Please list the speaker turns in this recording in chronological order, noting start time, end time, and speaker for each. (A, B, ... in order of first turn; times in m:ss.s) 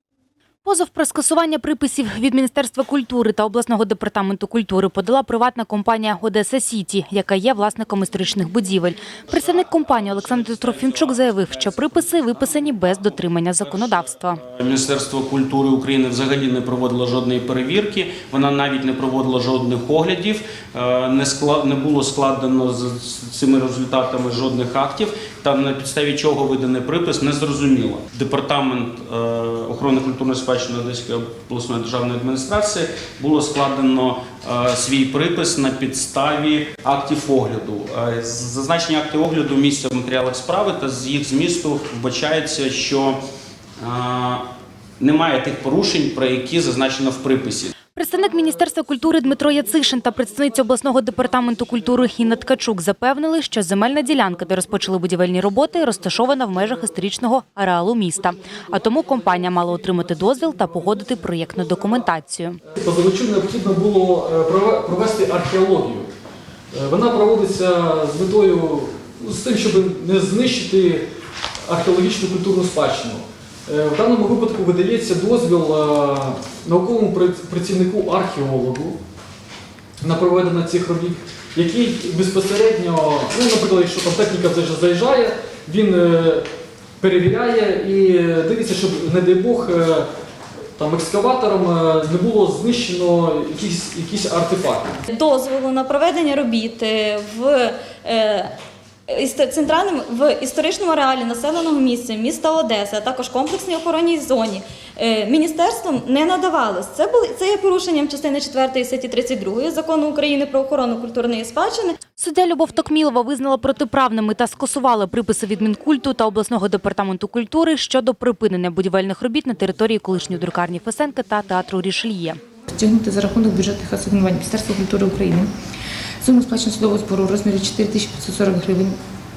0:00.6-0:14.4 A
0:09.8-0:13.0 B
0:13.6-0:43.2 B
0:43.8-0:44.4 B
0:45.0-0:47.7 B
0:48.0-1:02.6 A
1:02.7-1:06.1 C
1:06.7-1:11.1 C
1:11.7-1:19.0 C
1:20.0-1:26.5 C
1:27.0-1:30.1 C
1:30.8-1:35.0 C
1:35.1-1:38.5 D
1:39.1-1:52.0 D
1:52.1-2:02.4 A
2:02.7-2:05.5 E
2:06.2-2:09.0 E